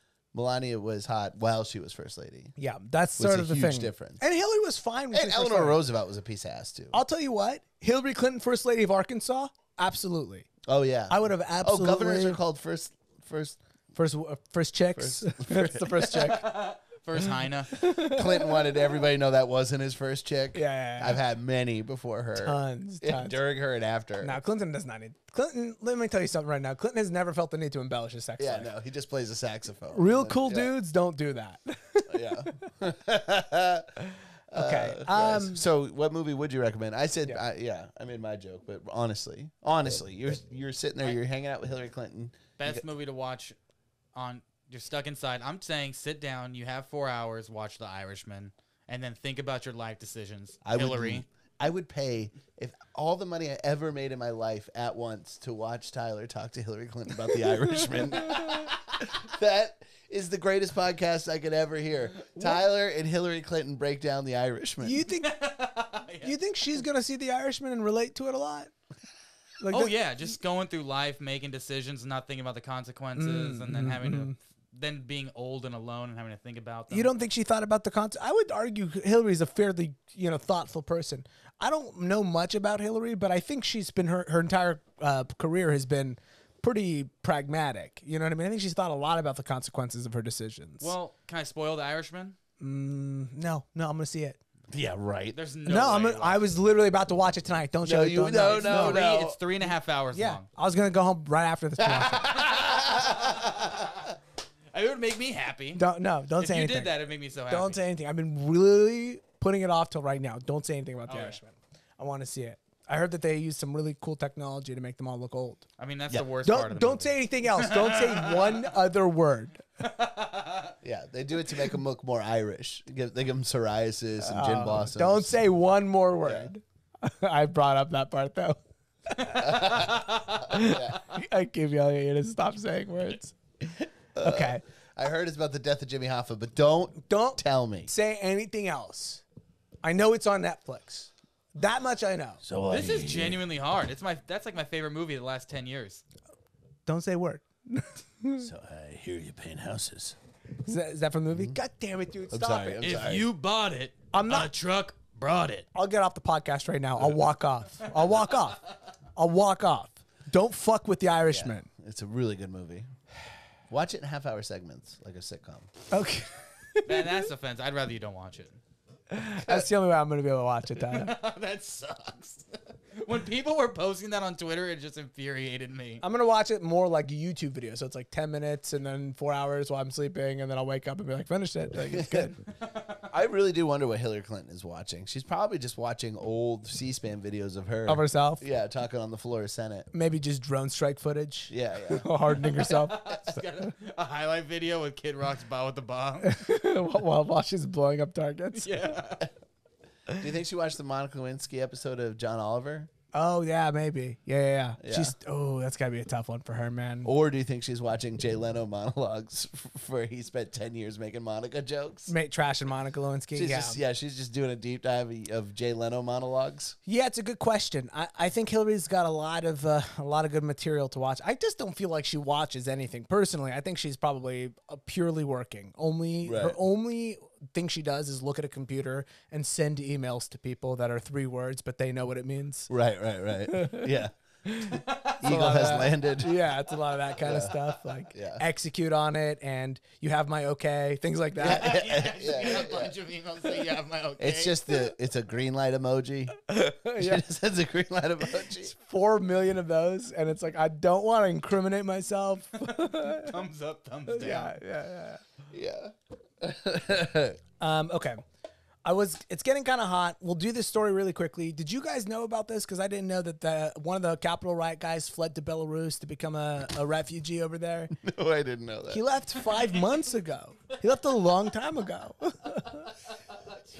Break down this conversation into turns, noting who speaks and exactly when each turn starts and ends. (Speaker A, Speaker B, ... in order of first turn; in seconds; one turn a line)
Speaker A: 0.3-2.5
Speaker B: 2.6-5.8
Speaker A: 3.2-4.2
Speaker A: 5.1-7.0
Speaker B: 6.9-10.5
Speaker A: 10.7-13.6
Speaker B: 11.1-12.4
Speaker B: 13.9-16.5
Speaker A: 15.0-16.4
Speaker C: 16.2-17.9
Speaker B: 17.7-18.6
Speaker A: 18.0-24.4
Speaker B: 20.5-21.2
Speaker B: 22.4-23.4
Speaker B: 24.2-28.7
Speaker A: 28.4-30.7
Speaker B: 29.9-32.5
Speaker A: 32.1-33.9
Speaker A: 34.5-42.8
Speaker B: 34.5-35.6
Speaker C: 42.6-43.6
Speaker C: 44.1-51.2
Speaker A: 50.6-65.0
Speaker B: 62.4-62.6
Speaker B: 64.8-65.3
Speaker C: 65.2-66.4
Speaker B: 66.2-68.7
Speaker B: 69.6-69.9
Speaker C: 69.7-77.1
Speaker B: 73.2-74.4
Speaker B: 76.9-90.9
Speaker C: 90.8-92.4
Speaker B: 92.6-94.4
Speaker A: 94.7-95.4
Speaker C: 95.3-96.5
Speaker B: 95.7-99.0
Speaker A: 97.8-99.4
Speaker C: 98.5-100.5
Speaker B: 100.1-102.3
Speaker A: 102.3-103.5
Speaker C: 102.5-103.4
Speaker C: 104.7-105.8
Speaker B: 105.8-107.0
Speaker C: 106.4-107.8
Speaker B: 107.5-115.6
Speaker C: 111.1-111.4
Speaker C: 115.8-118.6
Speaker B: 116.5-119.6
Speaker C: 119.8-120.7
Speaker A: 120.8-125.4
Speaker B: 124.2-129.8
Speaker A: 126.2-126.5
Speaker A: 129.4-131.0
Speaker C: 129.8-130.4
Speaker B: 130.5-133.3
Speaker A: 134.2-137.9
Speaker B: 134.2-134.6
Speaker B: 137.1-139.2
Speaker B: 139.8-142.4
Speaker A: 142.4-143.4
Speaker C: 142.7-146.0
Speaker B: 146.9-148.5
Speaker A: 148.4-150.2
Speaker B: 150.7-152.8
Speaker A: 151.3-151.6
Speaker A: 152.3-153.3
Speaker C: 152.8-155.7
Speaker B: 154.1-154.5
Speaker B: 155.8-158.6
Speaker B: 159.2-161.7
Speaker A: 161.3-162.9
Speaker A: 163.7-165.7
Speaker B: 165.9-167.2
Speaker C: 166.9-168.6
Speaker B: 169.1-171.1
Speaker C: 170.8-176.0
Speaker B: 176.0-182.4
Speaker A: 181.8-182.3
Speaker A: 183.1-189.9
Speaker B: 187.9-188.4
Speaker B: 189.9-193.0
Speaker A: 191.5-192.1
Speaker C: 192.7-196.3
Speaker B: 196.2-198.9
Speaker C: 198.6-199.3
Speaker A: 200.2-202.9
Speaker B: 203.1-207.1
Speaker A: 204.8-205.1
Speaker A: 207.0-212.1
Speaker B: 212.1-213.8
Speaker A: 213.3-216.8
Speaker B: 216.8-232.7
Speaker A: 226.2-226.6
Speaker A: 232.7-234.2
Speaker B: 233.5-233.9
Speaker B: 234.5-241.8
Speaker C: 234.9-235.5
Speaker A: 235.2-236.4
Speaker A: 237.2-237.6
Speaker A: 238.1-238.4
Speaker A: 241.4-242.9
Speaker C: 241.4-244.8
Speaker A: 244.2-246.4
Speaker B: 246.5-247.2
Speaker A: 246.9-248.7
Speaker B: 248.8-253.3
Speaker C: 252.7-254.6
Speaker B: 254.1-255.2
Speaker A: 255.5-257.4
Speaker B: 257.6-258.2
Speaker B: 258.9-267.9
Speaker A: 268.0-269.0
Speaker B: 268.9-272.9